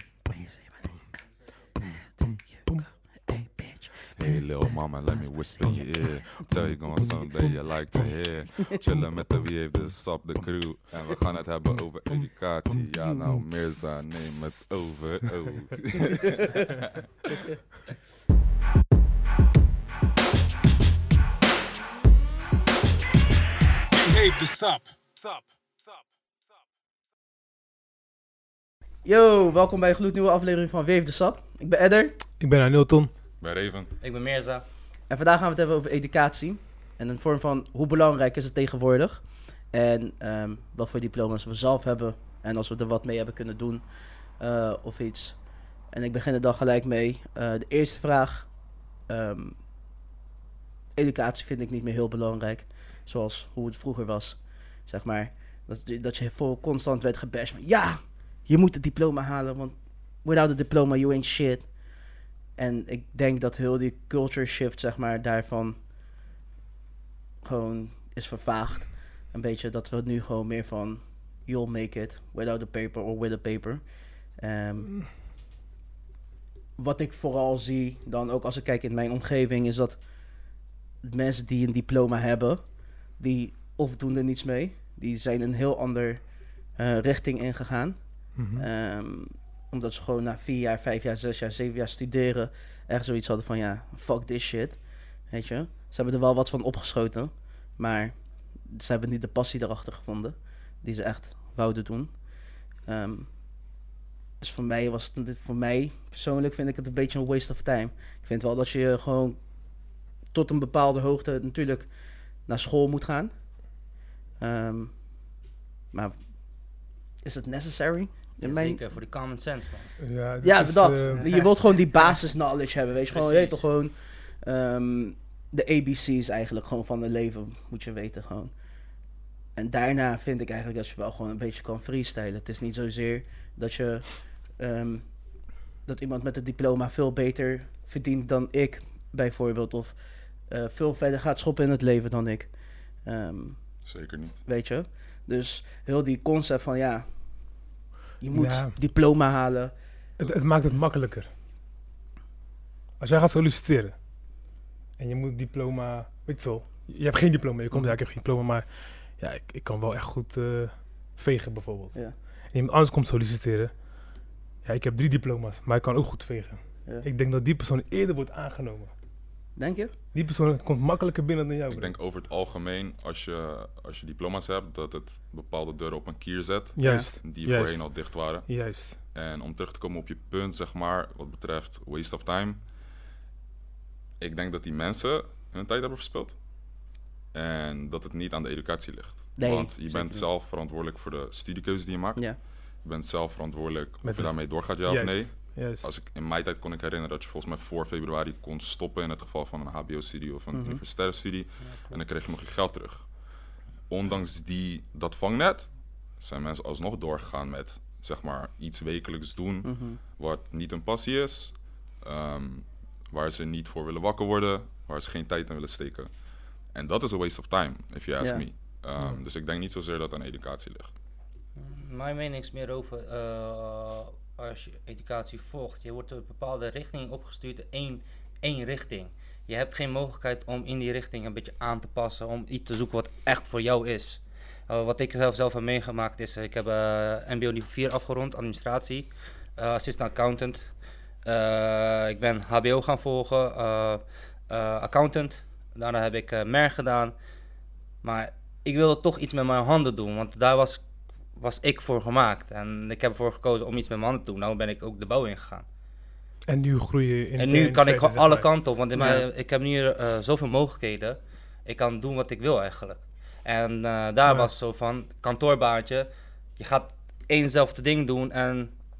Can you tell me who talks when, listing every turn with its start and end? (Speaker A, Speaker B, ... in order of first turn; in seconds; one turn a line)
Speaker A: 0.1-0.9
Speaker A: 3.2-4.1
Speaker B: 4.1-16.9
Speaker C: 24.0-26.1
Speaker A: 29.0-32.2
Speaker C: 32.4-33.1
Speaker B: 33.4-33.9
Speaker D: 34.0-34.6
Speaker A: 35.1-48.5
Speaker A: 49.1-49.6
Speaker A: 50.9-61.8
Speaker A: 62.5-65.8
Speaker A: 67.4-75.0
Speaker A: 76.8-80.0
Speaker A: 81.0-102.2
Speaker C: 88.3-88.7
Speaker A: 102.8-103.4
Speaker A: 104.4-109.4
Speaker A: 110.3-111.9
Speaker A: 112.5-113.8
Speaker A: 114.4-115.0
Speaker A: 115.9-116.2
Speaker A: 117.2-118.8
Speaker D: 118.4-119.9
Speaker C: 120.0-121.3
Speaker A: 120.4-128.5
Speaker D: 123.1-123.6
Speaker A: 129.6-135.2
Speaker A: 135.8-139.9
Speaker A: 140.5-143.8
Speaker B: 143.8-144.4
Speaker A: 144.4-147.1
Speaker A: 148.2-149.7
Speaker C: 148.3-148.8
Speaker C: 150.2-151.3
Speaker C: 153.0-154.0
Speaker C: 155.0-163.7
Speaker A: 157.7-157.9
Speaker C: 164.6-168.9
Speaker A: 169.6-169.9
Speaker C: 170.1-171.9
Speaker B: 171.7-182.7
Speaker C: 176.8-179.0
Speaker A: 176.8-177.1
Speaker B: 184.2-203.3
Speaker A: 189.3-190.3
Speaker C: 194.0-195.9
Speaker A: 200.5-200.8
Speaker D: 201.6-201.9
Speaker B: 203.9-220.9
Speaker A: 209.6-210.0
Speaker A: 218.2-218.4
Speaker D: 221.6-240.7
Speaker D: 241.2-247.1
Speaker D: 248.0-255.6
Speaker C: 256.5-258.5
Speaker D: 257.4-268.8
Speaker A: 258.9-259.2
Speaker C: 264.2-264.5